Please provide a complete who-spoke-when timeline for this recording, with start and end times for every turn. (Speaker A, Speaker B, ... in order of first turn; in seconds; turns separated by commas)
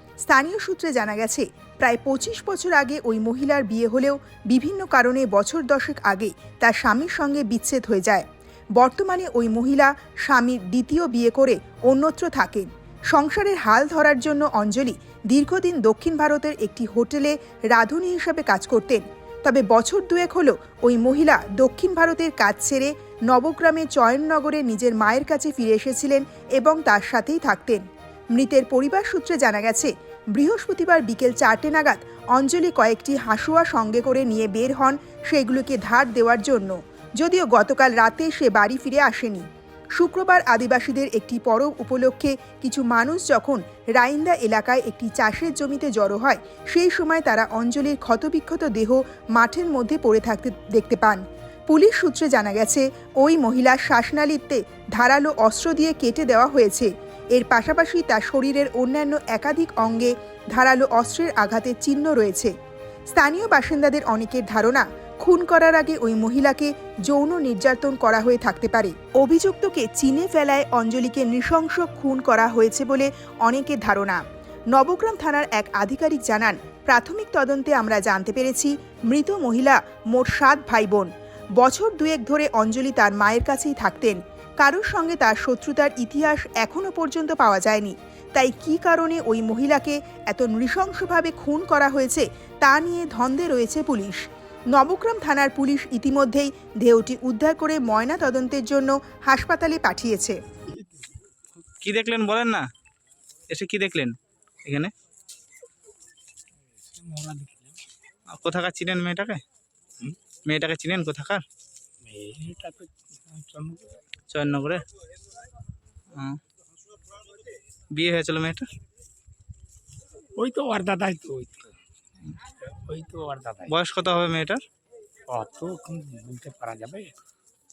Speaker A: 0.2-8.2, Speaker A: 8.8-27.8, Speaker A: 28.3-39.5, Speaker A: 40.0-62.5, Speaker A: 63.1-100.4, Speaker B: 101.8-102.7, Speaker B: 103.5-104.1, Speaker C: 106.7-107.8, Speaker B: 108.3-109.4, Speaker B: 110.5-111.4, Speaker C: 112.0-114.0, Speaker B: 114.3-114.8, Speaker B: 118.0-118.7, Speaker C: 120.4-121.7, Speaker C: 122.7-123.7, Speaker B: 123.7-124.6, Speaker C: 125.3-127.1